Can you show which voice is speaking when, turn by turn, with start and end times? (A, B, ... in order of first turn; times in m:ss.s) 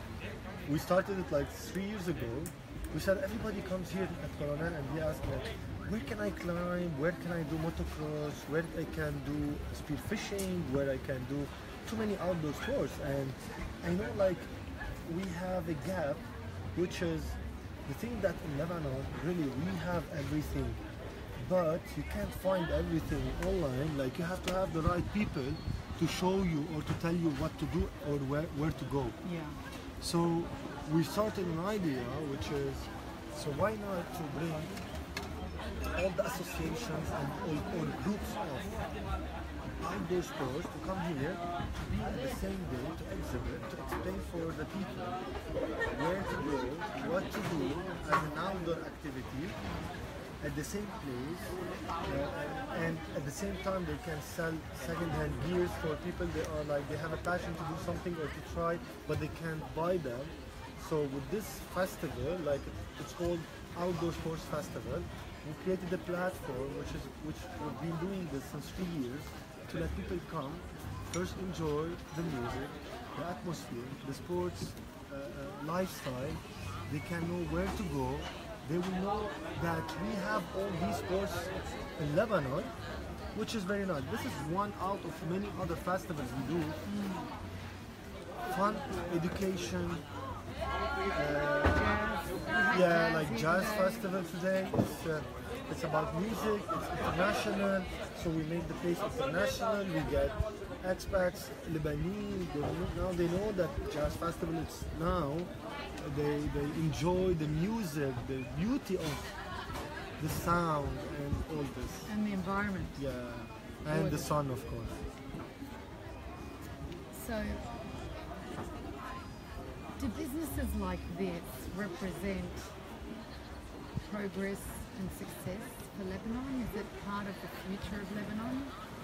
0:00.6-0:35.1 A
0:29.2-0:29.6 B
0:35.9-0:39.2 A
0:39.7-1:26.8 A
1:26.8-1:27.3 B
1:28.4-1:30.1 A
1:31.0-1:55.1 A
1:31.8-1:34.1 B
1:52.1-1:54.6 B
1:57.1-1:57.9 B
1:59.9-2:02.8 B
2:04.0-2:08.8 B